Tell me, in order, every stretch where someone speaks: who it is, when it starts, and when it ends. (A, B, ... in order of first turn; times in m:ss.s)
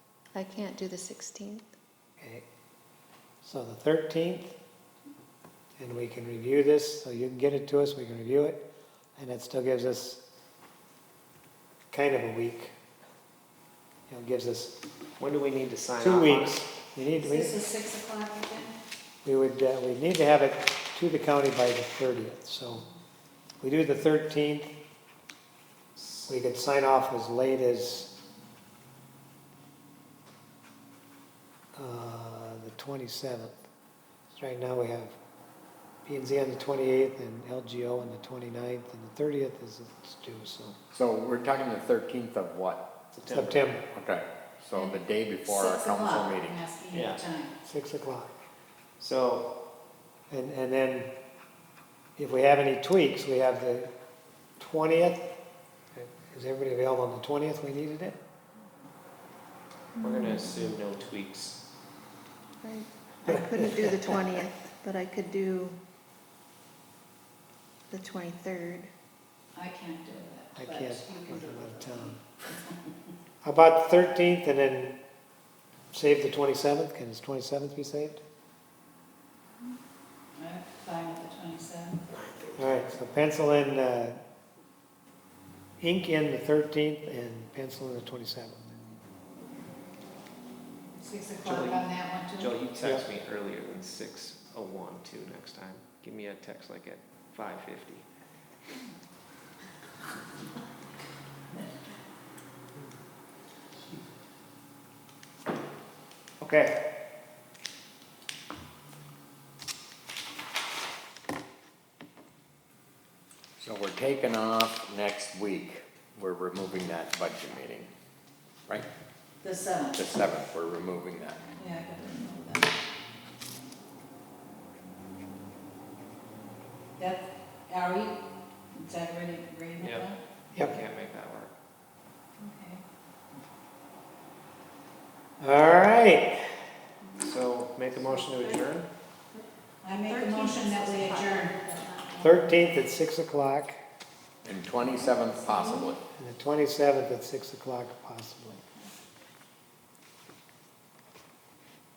0:00.3-0:01.6 A
0:02.2-0:02.4 B
0:03.4-0:04.6 B
0:05.8-0:08.6 B
0:09.2-0:10.2 B
0:11.9-0:12.7 B
0:14.1-0:14.8 B
0:15.2-0:16.6 C
0:16.0-0:17.6 B
0:17.2-0:18.8 D
0:19.2-0:22.8 B
0:23.6-0:24.7 B
0:26.0-0:28.1 B
0:31.8-0:33.7 B
0:34.3-0:35.2 B
0:36.0-0:40.8 B
0:40.9-0:42.8 E
0:43.1-0:43.6 C
0:43.3-0:43.8 B
0:43.9-0:46.6 E
0:44.8-0:47.5 D
0:46.9-0:47.2 C
0:47.6-0:48.3 B
0:49.0-0:49.5 C
0:50.3-0:51.1 B
0:52.2-0:53.9 B
0:54.6-0:55.3 B
0:56.0-0:58.2 B
1:00.0-1:00.4 A
1:00.0-1:01.6 C
1:02.6-1:05.8 A
1:03.3-1:03.6 D
1:07.9-1:08.9 A
1:09.5-1:12.8 D
1:10.6-1:12.2 B
1:13.4-1:15.0 B
1:15.9-1:18.2 B
1:20.4-1:22.0 D
1:22.1-1:22.7 C
1:22.6-1:24.2 B
1:25.8-1:28.7 B
1:31.0-1:32.5 D
1:31.4-1:38.1 C
1:46.4-1:46.8 C
1:53.6-1:57.9 E
1:59.4-2:00.0 D
1:59.9-2:01.4 E
2:01.6-2:02.7 D
2:07.0-2:08.2 D
2:08.8-2:10.2 D
2:09.8-2:11.5 C
2:12.4-2:12.8 D
2:15.4-2:16.4 B
2:17.2-2:18.9 C
2:19.8-2:22.6 D
2:20.1-2:21.9 A
2:22.2-2:23.8 B
2:24.4-2:26.0 E
2:26.2-2:28.6 B